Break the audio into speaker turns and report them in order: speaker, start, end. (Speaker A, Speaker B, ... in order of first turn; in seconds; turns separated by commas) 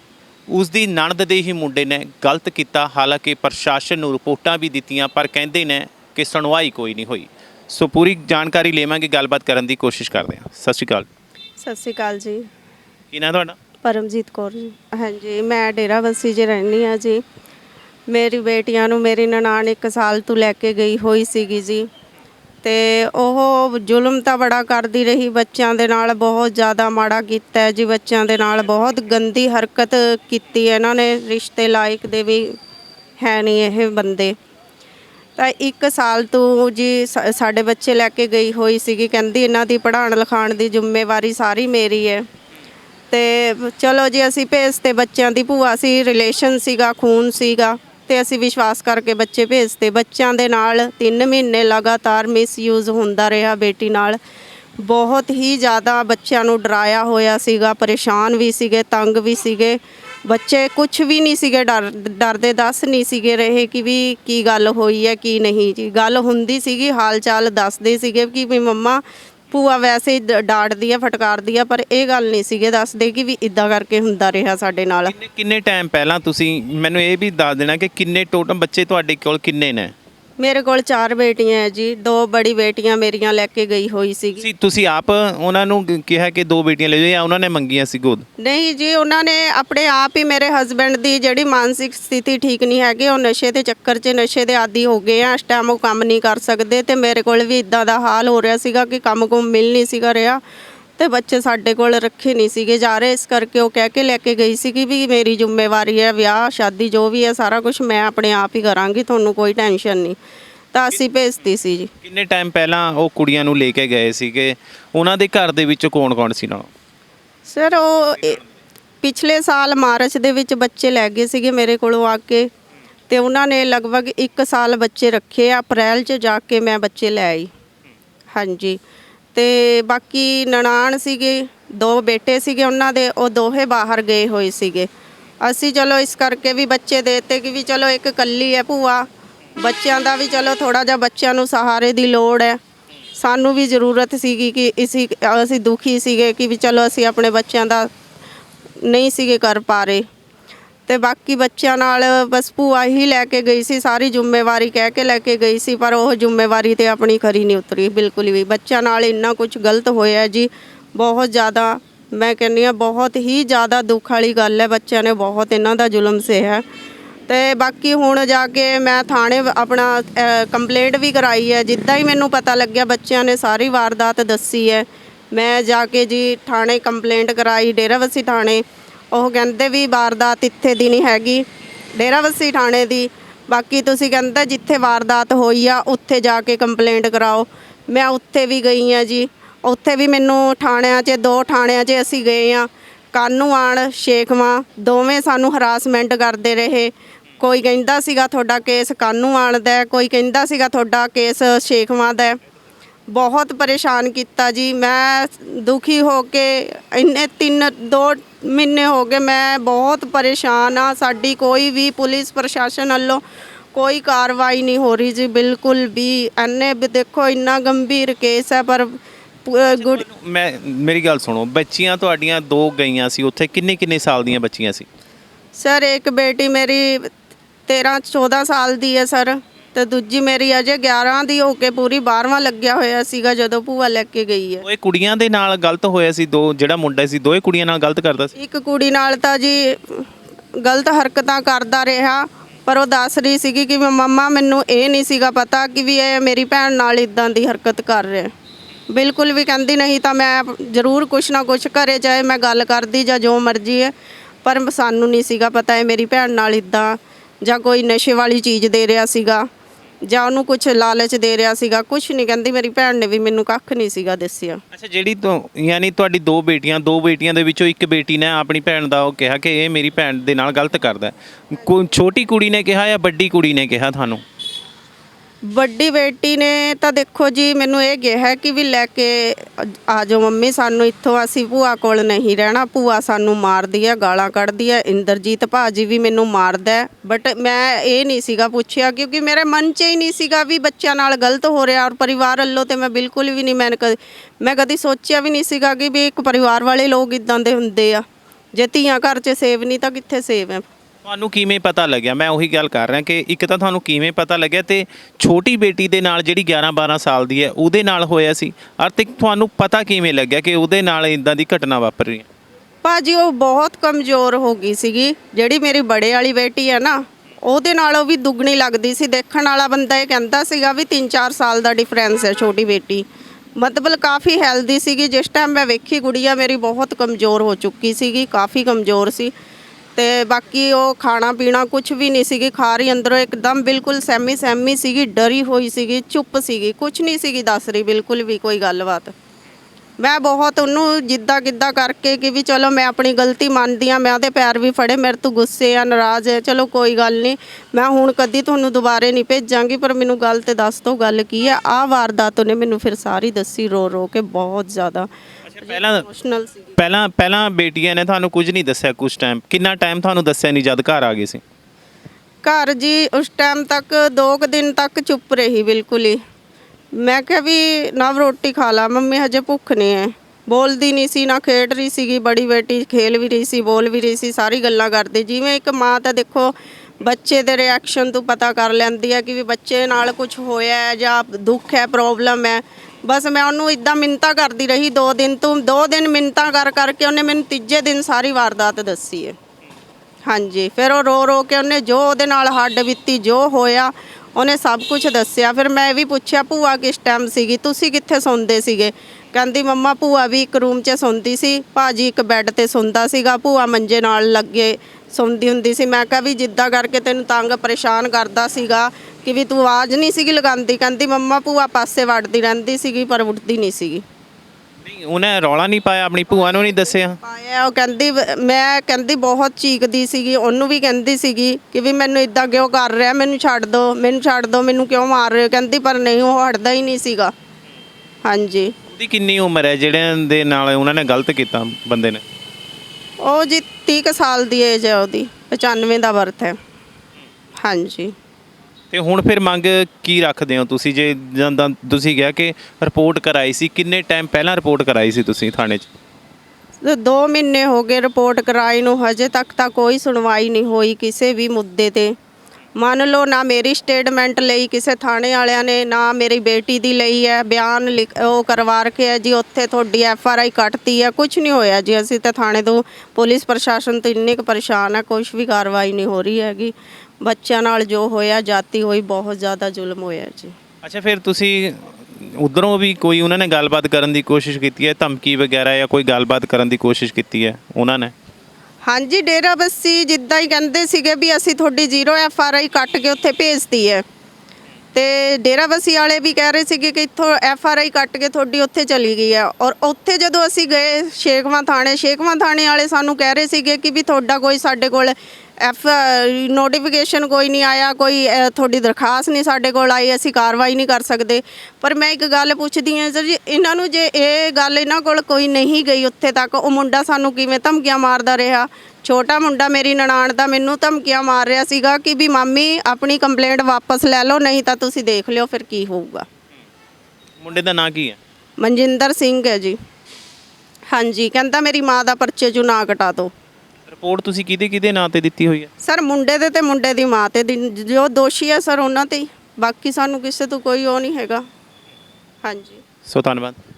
Speaker A: 0.5-11.1, Speaker B: 11.6-12.5, Speaker A: 13.1-13.6, Speaker B: 13.8-17.2, Speaker B: 18.1-21.9, Speaker B: 22.6-32.6, Speaker B: 33.2-34.4, Speaker B: 35.4-42.3, Speaker B: 43.1-54.2, Speaker B: 54.8-75.1, Speaker A: 75.0-79.9, Speaker B: 80.4-84.4, Speaker A: 84.4-88.3, Speaker B: 88.4-100.4, Speaker B: 101.0-110.2, Speaker B: 110.7-111.9, Speaker A: 112.0-116.7, Speaker B: 117.5-118.4, Speaker B: 119.0-122.5, Speaker B: 123.1-127.5, Speaker B: 128.3-128.8, Speaker B: 129.3-134.9, Speaker B: 135.4-139.1, Speaker B: 139.6-142.6, Speaker B: 143.2-147.9, Speaker B: 148.8-150.1, Speaker B: 150.9-166.6, Speaker B: 167.3-202.4, Speaker B: 203.1-213.2, Speaker B: 213.7-220.0, Speaker A: 219.7-224.9, Speaker B: 225.6-227.1, Speaker B: 227.7-234.6, Speaker A: 234.6-238.3, Speaker B: 238.3-248.3, Speaker B: 248.9-253.9, Speaker B: 254.4-259.5, Speaker B: 260.0-264.6, Speaker A: 264.7-274.2, Speaker B: 275.5-298.0, Speaker B: 298.6-300.6, Speaker A: 301.0-312.2, Speaker B: 312.8-323.1, Speaker B: 323.6-329.3, Speaker B: 329.9-339.1, Speaker B: 340.0-355.1, Speaker A: 355.5-356.1, Speaker B: 355.6-356.8, Speaker A: 356.8-361.4, Speaker B: 362.4-366.2, Speaker B: 366.9-389.4, Speaker B: 390.2-414.0, Speaker A: 414.8-417.2, Speaker B: 416.4-427.3, Speaker B: 428.2-428.7, Speaker A: 428.9-432.2, Speaker B: 433.2-436.6, Speaker B: 437.6-438.1, Speaker A: 438.9-445.9, Speaker B: 446.8-452.2, Speaker B: 452.8-470.6, Speaker A: 470.8-478.1, Speaker B: 478.9-484.0, Speaker B: 484.9-516.2, Speaker A: 517.4-518.2, Speaker B: 518.6-519.8, Speaker B: 520.9-523.3, Speaker A: 523.9-525.7, Speaker B: 525.8-531.4, Speaker B: 532.4-532.8, Speaker A: 533.0-533.6